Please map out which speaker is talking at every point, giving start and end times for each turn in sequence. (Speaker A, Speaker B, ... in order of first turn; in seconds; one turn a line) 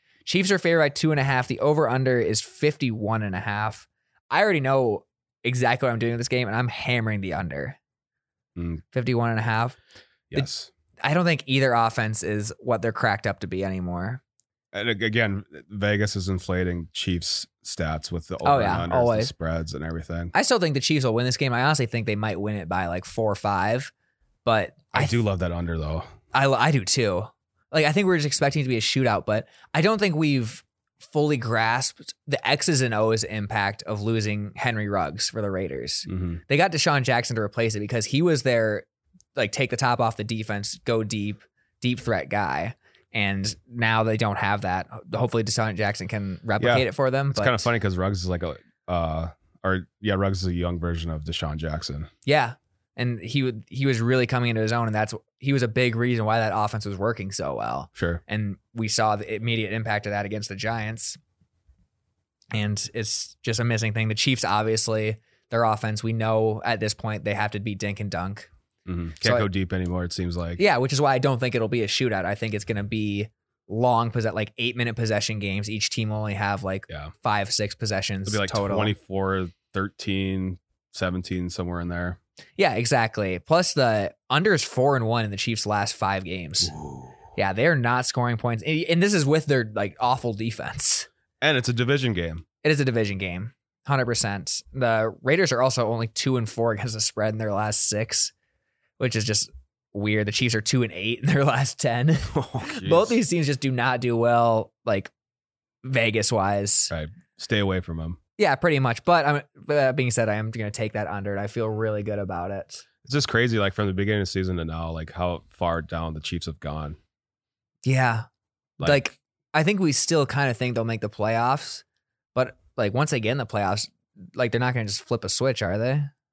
Speaker A: 0.2-7.8
Speaker B: 8.6-8.8
Speaker A: 8.9-9.8
Speaker B: 10.3-10.7
Speaker A: 11.0-14.2
Speaker B: 14.7-20.3
Speaker A: 18.4-19.3
Speaker A: 20.3-23.9
Speaker A: 24.4-25.2
Speaker B: 24.9-26.1
Speaker A: 26.3-47.7
Speaker B: 36.1-36.4
Speaker B: 46.6-52.1
Speaker A: 52.3-61.2
Speaker B: 58.0-58.2
Speaker A: 62.5-68.5
Speaker B: 68.9-70.6
Speaker A: 69.2-69.5
Speaker A: 70.6-78.9
Speaker B: 78.2-82.2
Speaker A: 82.6-86.7
Speaker B: 86.7-87.1
Speaker A: 87.3-91.1
Speaker B: 91.4-92.5
Speaker A: 92.6-98.3
Speaker A: 99.0-105.1
Speaker B: 102.3-103.2
Speaker A: 105.8-106.9
Speaker B: 106.9-108.2
Speaker A: 108.4-112.8
Speaker B: 113.0-117.0
Speaker A: 117.8-118.3
Speaker A: 118.8-121.8
Speaker A: 122.3-126.1